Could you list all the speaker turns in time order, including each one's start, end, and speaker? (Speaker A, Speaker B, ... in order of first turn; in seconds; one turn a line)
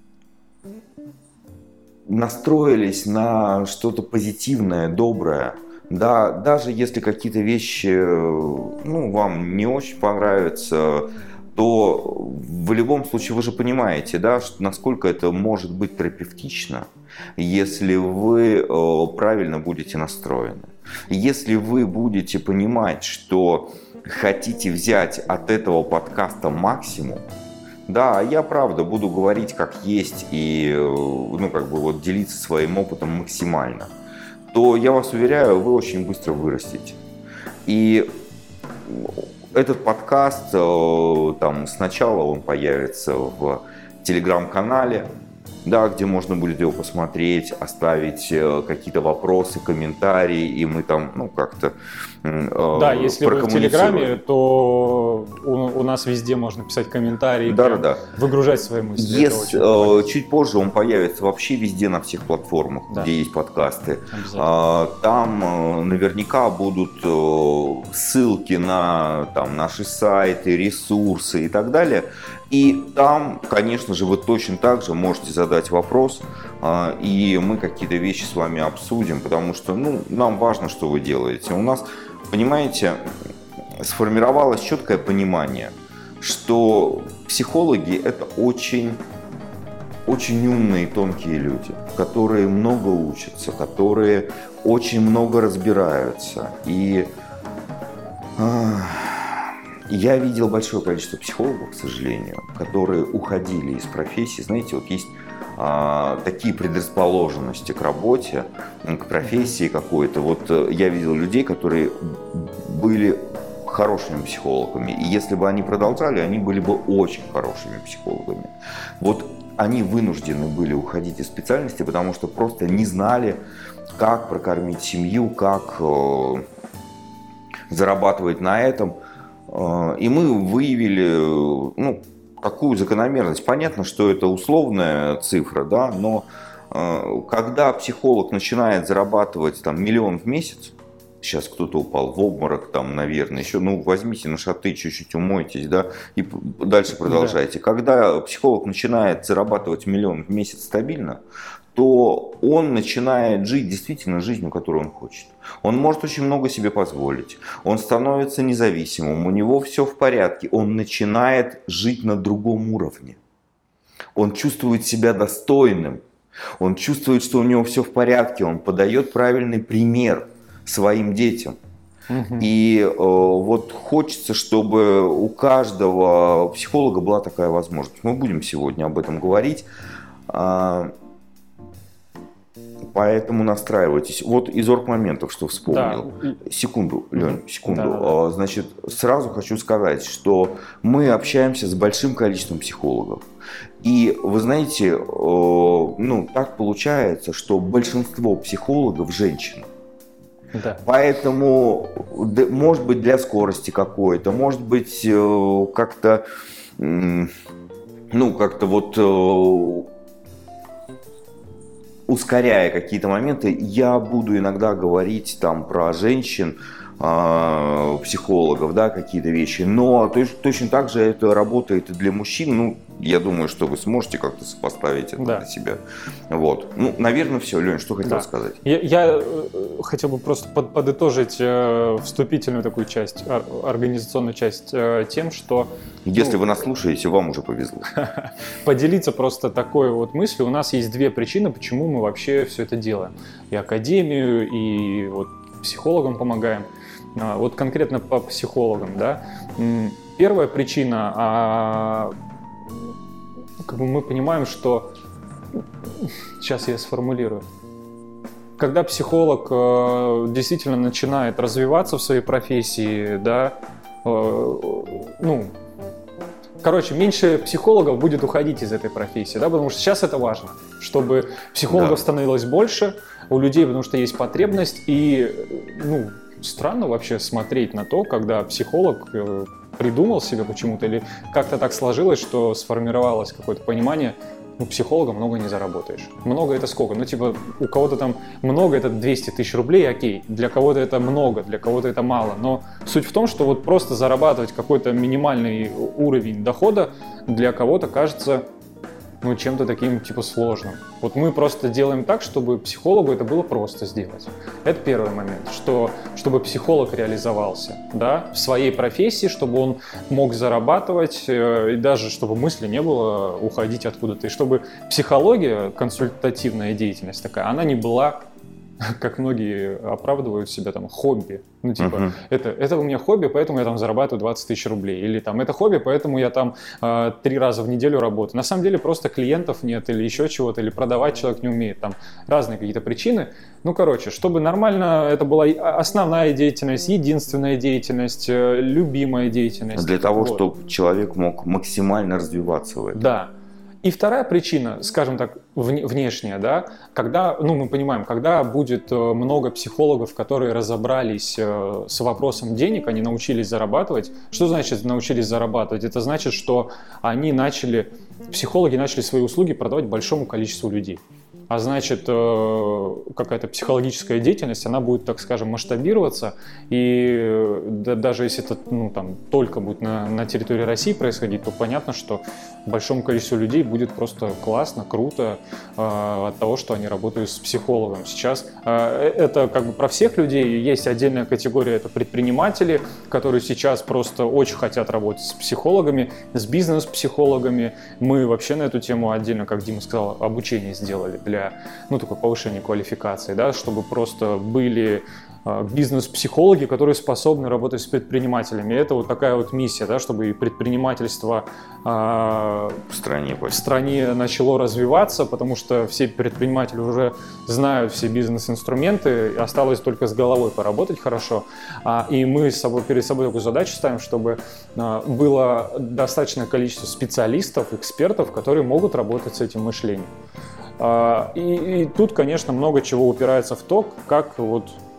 Speaker A: 2.1-27.2
Speaker A: 27.9-33.9
Speaker A: 34.5-37.0
Speaker A: 37.7-38.1
Speaker A: 38.9-45.1
Speaker A: 45.6-54.2
Speaker B: 52.7-60.1
Speaker A: 57.5-58.0
Speaker A: 59.0-83.0
Speaker B: 64.1-64.5
Speaker A: 83.8-89.0
Speaker A: 90.1-97.1
Speaker A: 98.4-123.4
Speaker A: 124.0-126.4
Speaker A: 127.7-129.0
Speaker A: 129.5-151.2
Speaker B: 147.1-147.4
Speaker A: 151.8-163.2
Speaker A: 164.2-166.0
Speaker A: 166.6-171.6
Speaker B: 172.1-172.5
Speaker A: 172.4-179.7
Speaker A: 180.3-180.9
Speaker A: 182.9-193.2
Speaker B: 185.7-186.4
Speaker B: 187.2-188.2
Speaker A: 193.8-199.7
Speaker B: 200.5-200.8
Speaker A: 200.8-206.2
Speaker A: 206.8-207.3
Speaker A: 208.1-209.9
Speaker A: 212.1-228.6
Speaker B: 225.2-225.4
Speaker B: 228.0-236.4
Speaker A: 236.1-237.9
Speaker B: 237.9-252.1
Speaker B: 253.6-254.9
Speaker B: 256.0-257.4
Speaker B: 258.6-265.5
Speaker B: 266.6-298.4
Speaker A: 271.7-272.1
Speaker B: 299.2-318.3
Speaker B: 318.8-340.4
Speaker A: 321.8-322.2
Speaker A: 339.7-343.0
Speaker B: 342.9-343.3
Speaker B: 343.8-402.8
Speaker A: 402.9-403.7
Speaker B: 403.5-420.1
Speaker B: 420.8-424.8